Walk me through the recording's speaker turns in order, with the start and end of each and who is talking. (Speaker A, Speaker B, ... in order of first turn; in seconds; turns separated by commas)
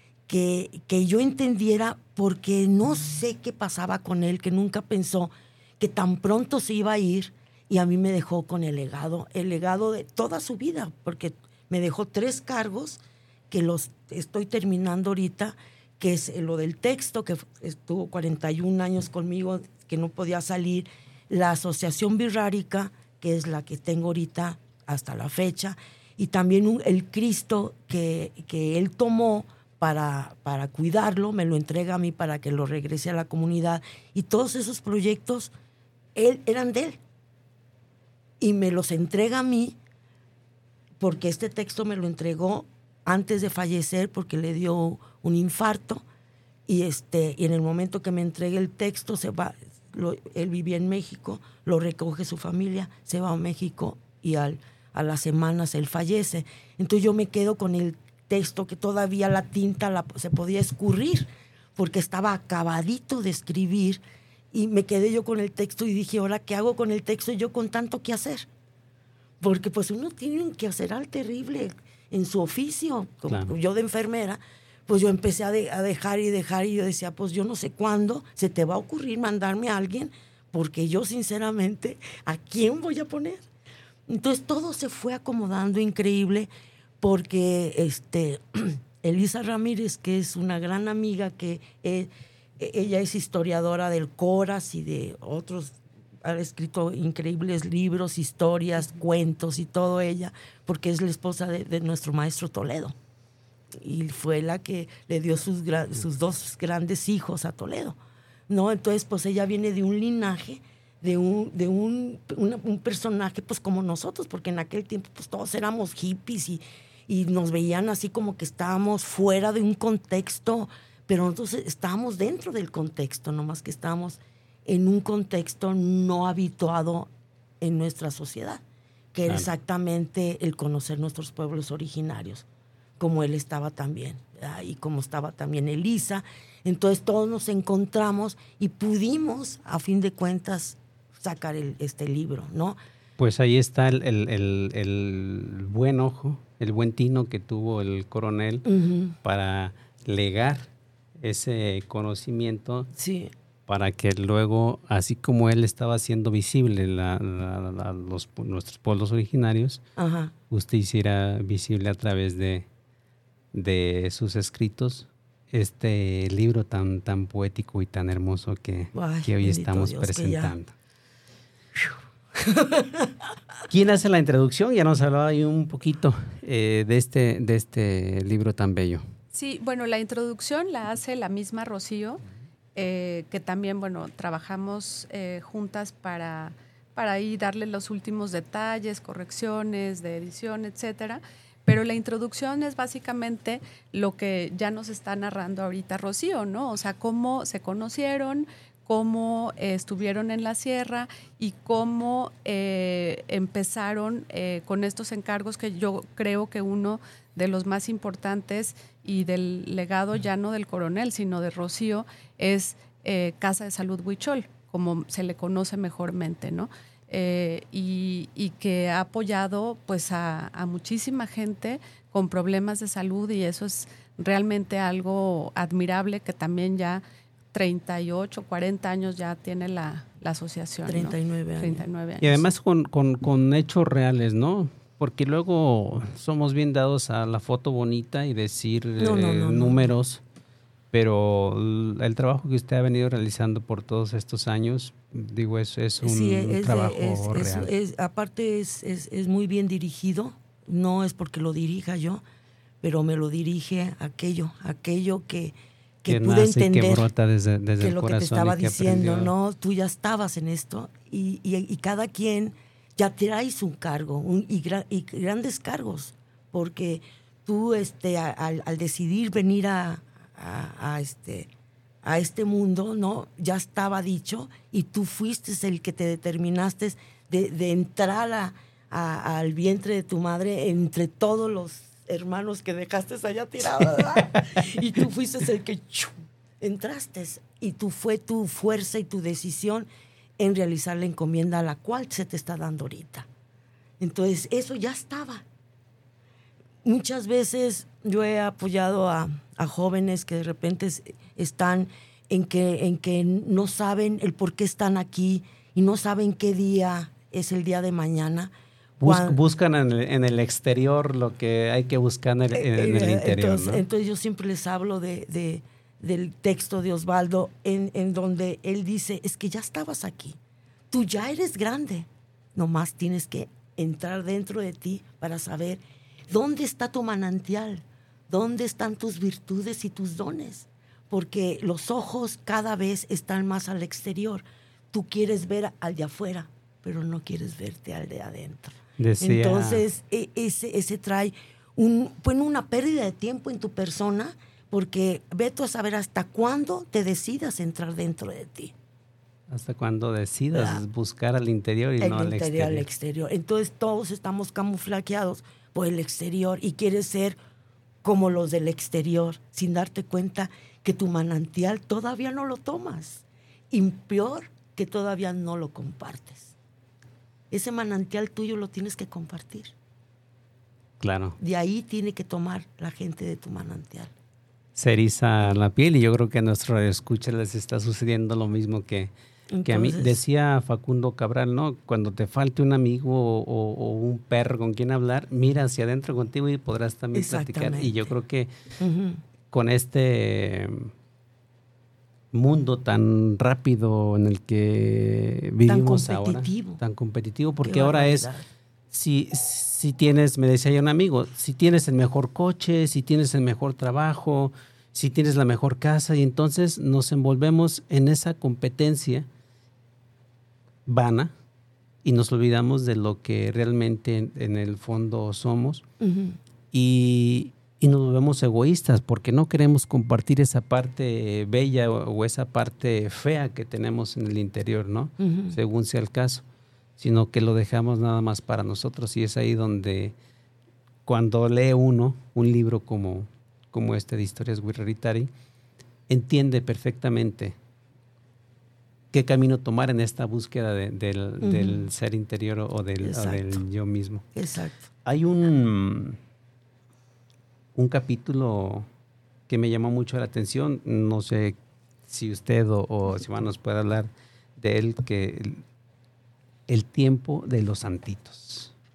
Speaker A: 0.3-35.5, Speaker A: 36.1-37.0, Speaker A: 38.4-39.8, Speaker A: 41.0-46.0, Speaker A: 46.7-64.0, Speaker A: 64.5-68.5, Speaker A: 69.4-83.4, Speaker B: 73.3-73.5, Speaker A: 84.1-86.5, Speaker A: 87.0-102.9, Speaker A: 103.8-108.0, Speaker A: 108.5-127.1, Speaker A: 127.6-128.6, Speaker A: 129.1-132.4, Speaker A: 133.0-142.8, Speaker B: 143.2-148.7, Speaker A: 148.7-149.1, Speaker B: 149.2-150.7, Speaker B: 151.2-152.9, Speaker A: 153.0-153.3, Speaker B: 153.7-159.8, Speaker A: 160.0-160.3, Speaker B: 160.5-162.7, Speaker B: 163.5-170.7, Speaker A: 168.9-170.5, Speaker A: 172.4-173.1, Speaker B: 173.7-179.0, Speaker C: 179.3-182.2, Speaker C: 182.8-232.4, Speaker A: 230.9-231.8, Speaker B: 232.2-240.2, Speaker A: 239.0-239.9, Speaker B: 240.9-247.7, Speaker A: 246.0-252.2, Speaker A: 252.8-257.1, Speaker B: 256.1-259.3, Speaker A: 257.8-271.5, Speaker A: 272.0-293.3, Speaker A: 294.0-295.4, Speaker A: 296.8-308.5, Speaker B: 309.0-313.8, Speaker A: 309.0-309.4, Speaker A: 312.5-320.4, Speaker A: 320.9-348.7, Speaker B: 339.0-339.8, Speaker B: 349.5-352.9, Speaker A: 350.5-350.8, Speaker A: 352.0-357.4, Speaker A: 358.0-366.5, Speaker A: 367.5-369.7, Speaker B: 371.0-371.4, Speaker A: 371.4-374.1, Speaker B: 374.8-379.1, Speaker A: 379.5-380.2, Speaker B: 379.6-388.5, Speaker A: 387.1-388.1, Speaker A: 388.8-389.2, Speaker B: 389.5-390.9, Speaker B: 392.3-398.3, Speaker A: 395.6-396.8, Speaker A: 397.6-398.4, Speaker B: 398.9-409.3, Speaker B: 410.9-411.3, Speaker B: 412.0-415.8, Speaker A: 416.0-416.4, Speaker B: 416.7-426.4, Speaker A: 425.2-425.6, Speaker B: 427.0-430.1, Speaker B: 431.1-435.3, Speaker B: 436.1-437.6, Speaker B: 439.1-444.2, Speaker A: 441.4-441.9, Speaker A: 443.0-443.6, Speaker A: 444.3-444.9, Speaker B: 445.0-446.2, Speaker B: 447.8-448.9, Speaker B: 449.5-451.6, Speaker B: 452.1-455.6, Speaker B: 456.7-458.7